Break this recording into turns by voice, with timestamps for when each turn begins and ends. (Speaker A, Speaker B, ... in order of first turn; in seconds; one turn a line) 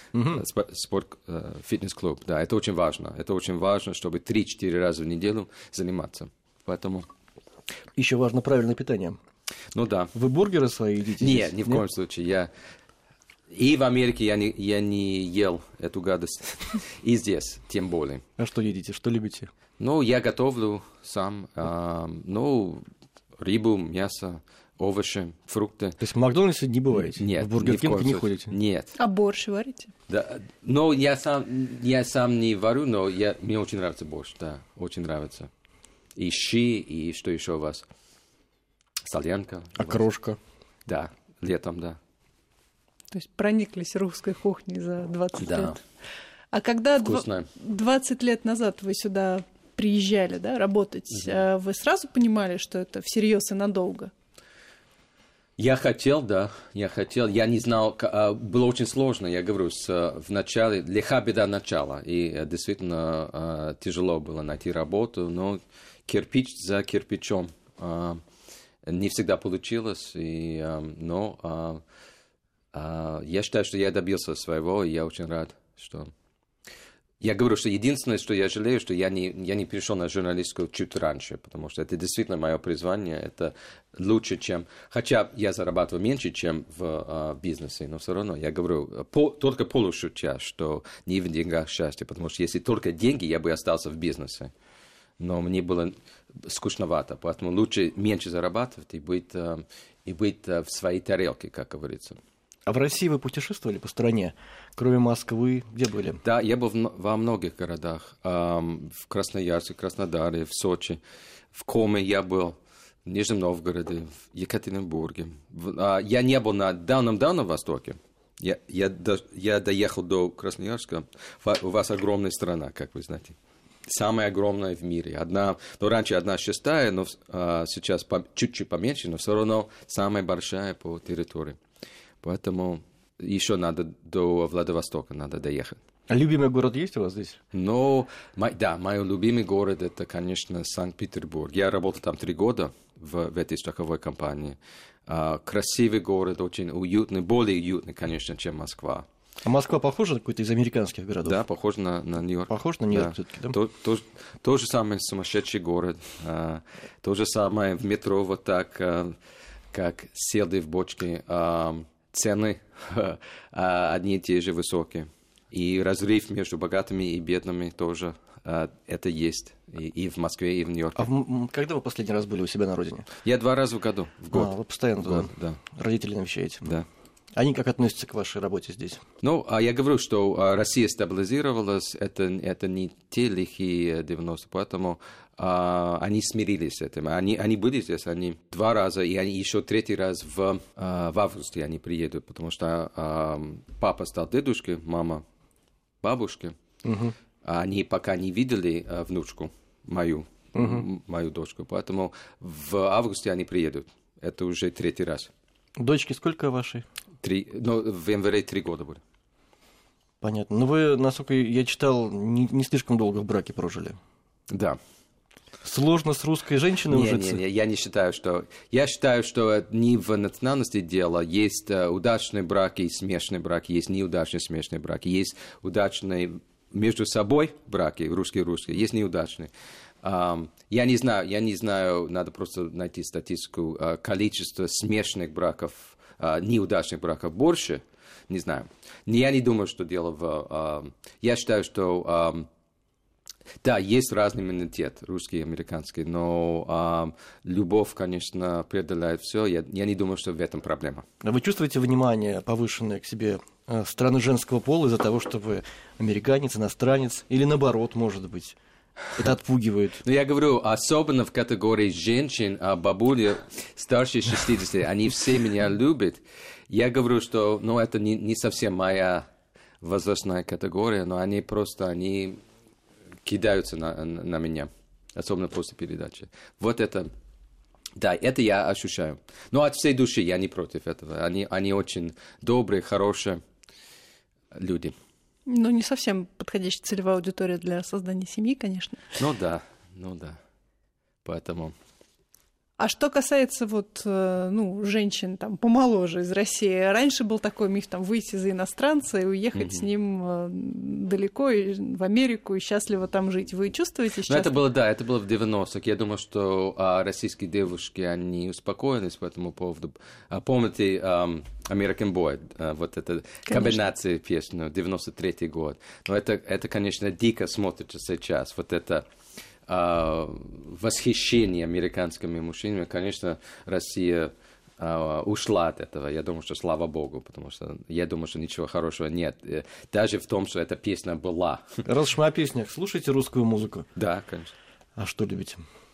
Speaker A: 0.1-0.4
Speaker B: 0.3-7.1
Speaker A: 8.0-9.2
Speaker B: 9.7-10.1
Speaker A: 10.1-11.8
Speaker B: 11.2-12.5
Speaker B: 13.5-18.2
Speaker A: 18.4-19.5
Speaker B: 19.8-22.8
Speaker B: 23.4-26.0
Speaker A: 26.0-28.5
Speaker B: 27.0-28.9
Speaker C: 29.0-29.9
Speaker B: 30.1-35.5
Speaker B: 36.1-37.8
Speaker B: 39.0-40.0
Speaker A: 39.8-40.4
Speaker B: 40.9-42.0
Speaker C: 43.1-45.8
Speaker B: 45.4-45.7
Speaker C: 46.5-54.1
Speaker B: 47.0-47.5
Speaker B: 51.1-51.4
Speaker B: 55.6-68.2
Speaker B: 68.9-71.8
Speaker B: 72.7-76.1
Speaker B: 77.2-94.5
Speaker B: 95.2-102.2
Speaker A: 102.7-106.2
Speaker B: 106.2-111.0
Speaker B: 111.5-123.3
Speaker B: 123.9-131.6
Speaker B: 132.2-135.8
Speaker A: 136.1-137.4
Speaker B: 137.5-149.0
Speaker A: 149.4-151.4
Speaker B: 151.2-159.1
Speaker A: 152.5-153.6
Speaker B: 159.7-171.1
Speaker A: 170.9-173.1
Speaker B: 173.2-175.6
Speaker A: 174.3-176.7
Speaker A: 177.3-179.0
Speaker B: 179.2-195.2
Speaker B: 196.0-196.5
Speaker A: 196.8-197.1
Speaker B: 197.4-205.3
Speaker A: 200.5-200.8
Speaker A: 205.8-206.8
Speaker B: 207.2-209.0
Speaker A: 210.2-214.0
Speaker B: 214.5-214.8
Speaker A: 215.6-217.4
Speaker B: 216.9-229.5
Speaker B: 230.0-242.4
Speaker B: 243.6-251.0
Speaker A: 251.2-258.6
Speaker A: 259.1-260.0
Speaker B: 260.0-269.2
Speaker B: 269.8-272.4
Speaker B: 273.2-277.1
Speaker B: 278.0-283.4
Speaker B: 284.5-284.9
Speaker C: 285.5-289.2
Speaker B: 289.2-290.4
Speaker B: 291.2-291.7
Speaker C: 292.8-304.6
Speaker B: 299.5-299.9
Speaker B: 304.3-319.0
Speaker C: 313.5-313.8
Speaker B: 319.7-331.7
Speaker A: 331.8-333.9
Speaker B: 333.9-334.5
Speaker A: 335.0-335.6